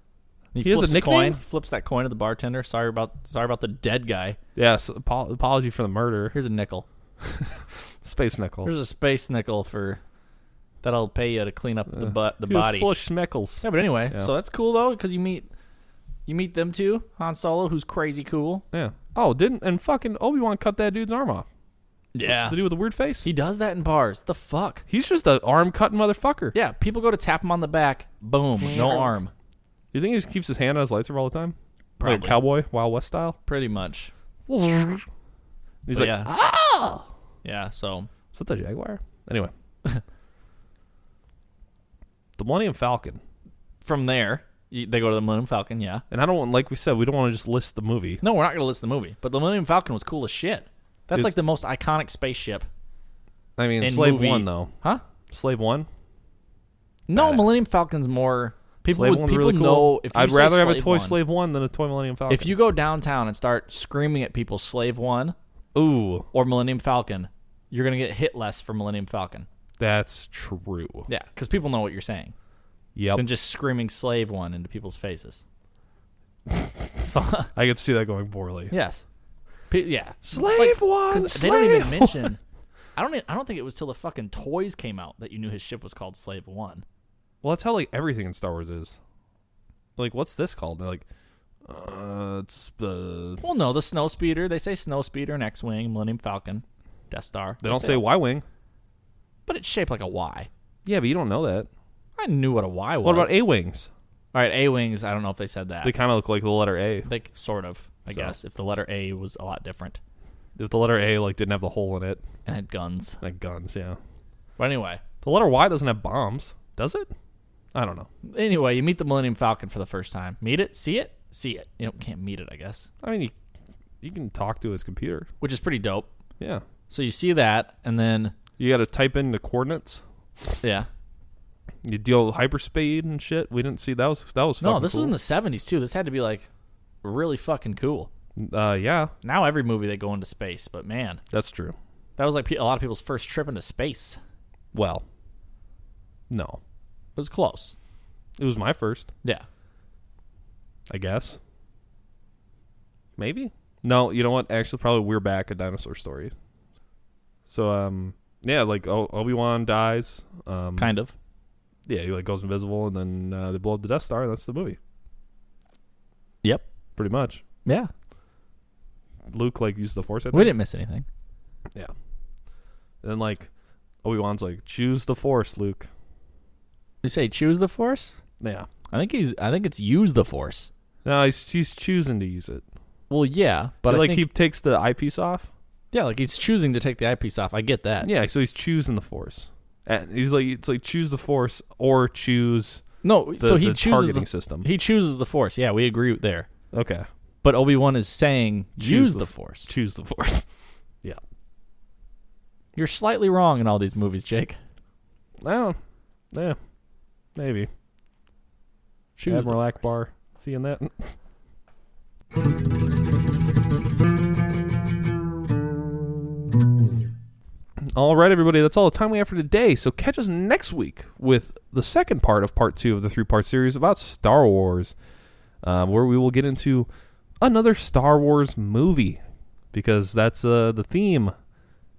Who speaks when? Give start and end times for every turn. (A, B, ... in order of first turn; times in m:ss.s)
0:00.5-0:04.4 A
0:00.6-0:01.4 B
0:04.6-0:06.4 B
0:06.3-0:06.8 A
0:07.2-0:08.7 B
0:08.6-0:10.0 A
0:10.8-0:12.9 A
0:11.9-0:14.3 B
0:13.6-0:15.5 A
0:16.3-0:18.6 A
0:18.7-0:21.4 B
0:22.1-0:22.6 A
0:22.2-0:23.3 B
0:23.2-0:24.8 A
0:24.9-0:26.5 B
0:26.5-0:29.3 A
0:28.6-0:29.0 B
0:29.9-0:33.4 B
0:32.0-0:32.4 A
0:33.5-0:34.1 A
0:34.5-0:35.0 B
0:35.8-0:37.0 B
0:35.9-0:36.3 A
0:37.4-0:38.1 A
0:38.3-0:39.5 B
0:42.4-0:43.2 B
0:43.8-0:46.0 A
0:46.1-0:48.2 B
0:48.2-0:52.7 A
0:53.6-0:54.7 B
0:53.8-0:55.0 A
0:55.3-0:55.9 B
0:57.1-1:01.2 A
0:57.1-0:57.6 B
0:58.9-1:02.6 B
1:02.3-1:05.4 A
1:05.7-1:06.3 B
1:06.3-1:09.5 A
1:09.8-1:11.1 B
1:11.1-1:12.3 A
1:13.0-1:13.2 B
1:13.2-1:15.4 A
1:16.5-1:16.9 B
1:17.0-1:17.5 A
1:17.5-1:18.7 B
1:18.7-1:19.0 A
1:19.7-1:22.4 A
1:20.2-1:22.3 B
1:22.9-1:26.8 A
1:27.4-1:29.0 B
1:30.0-1:31.0 B
1:31.7-1:33.5 B
1:33.4-1:38.0 A
1:37.6-1:38.4 B
1:39.5-1:40.5 A
1:40.8-1:41.7 B
1:42.2-1:43.3 A
1:43.0-1:43.9 B
1:44.3-1:45.9 A
1:45.8-1:47.1 B
1:47.0-1:50.0 A
1:50.6-1:52.2 B
1:52.4-1:53.2 A
1:53.2-1:54.0 B
1:54.6-1:55.0 A
1:55.2-1:57.1 B
1:57.7-1:58.1 B
1:58.2-2:02.9 A
2:03.0-2:03.3 B
2:04.0-2:05.3 B
2:05.4-2:06.1 A
2:06.9-2:08.4 A
2:08.6-2:10.0 B
2:10.6-2:10.9 A
2:11.8-2:15.2 B
2:14.6-2:16.5 A
2:17.0-2:18.1 A
2:18.4-2:19.1 B
2:19.2-2:21.2 A
2:21.3-2:21.8 B
2:22.2-2:24.2 A
2:24.7-2:25.0 B
2:26.3-2:26.6 B
2:27.2-2:27.8 A
2:28.4-2:29.1 B
2:30.9-2:31.4 B
2:33.2-2:36.3 B
2:37.5-2:40.9 B
2:40.8-2:41.1 A
2:41.9-2:44.8 B
2:47.0-2:47.4 B
2:47.6-2:47.9 A
2:49.3-2:50.5 B
2:50.3-2:51.0 A
2:53.0-2:53.5 B
2:54.0-2:55.9 B
2:57.0-2:58.2 A
2:58.4-2:58.7 B
2:58.9-3:00.7 A
3:01.0-3:02.6 B
3:03.1-3:04.3 A
3:03.9-3:05.5 B
3:05.9-3:08.1 A
3:08.0-3:12.8 B
3:13.0-3:16.5 A
3:13.4-3:14.7 B
3:16.7-3:17.1 B
3:17.4-3:19.7 A
3:18.8-3:20.4 B
3:22.7-3:24.6 A
3:25.4-3:25.8 B
3:26.3-3:26.6 B
3:27.4-3:27.7 B
3:29.2-3:29.8 A
3:29.3-3:31.1 B
3:37.9-3:44.9 B
3:45.6-3:46.9 B
3:47.4-3:49.2 B
3:49.7-3:51.3 B